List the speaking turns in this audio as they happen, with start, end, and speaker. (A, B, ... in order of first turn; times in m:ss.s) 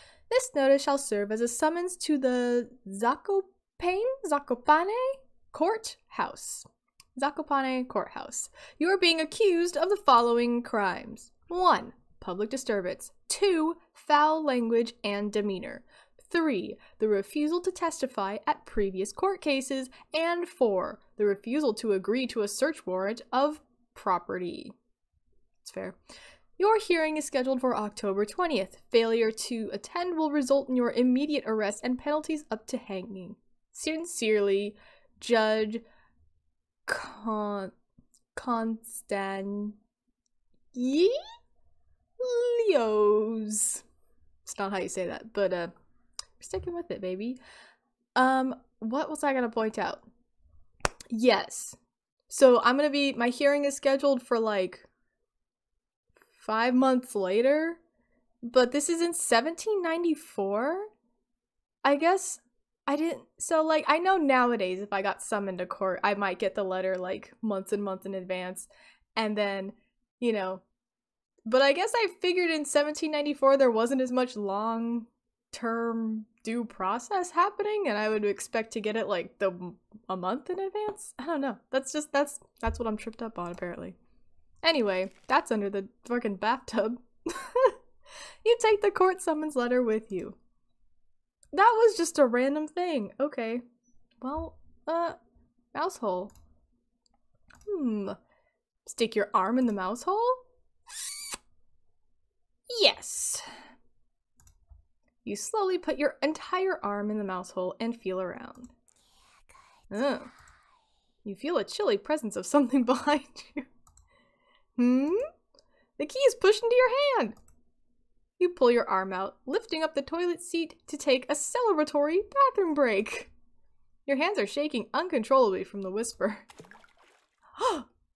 0:00.3-0:24.8 A
0:25.6-0:26.0 A
0:26.6-0:35.8 A
0:36.9-0:37.7 A
0:38.4-0:39.8 A
0:40.7-0:41.2 A
0:42.2-0:43.8 A
0:44.4-0:45.7 A
0:46.4-0:47.4 A
0:48.2-0:50.0 A
0:51.1-0:51.8 A
0:52.3-0:54.9 A
0:56.4-0:57.8 A
0:58.4-1:00.9 A
1:01.8-1:10.6 A
1:11.5-1:24.0 A
1:24.6-1:27.8 A
1:28.4-1:30.4 A
1:31.5-1:33.6 A
1:34.2-1:35.2 A
1:35.7-1:36.3 A
1:37.7-1:38.2 A
1:38.9-1:40.4 A
1:42.7-1:43.5 A
1:45.2-1:48.7 A
1:49.9-1:50.3 A
1:51.2-1:53.7 A
1:54.8-1:55.2 A
1:56.0-1:57.4 A
1:58.4-2:03.3 A
2:04.1-2:06.5 A
2:07.6-2:07.9 A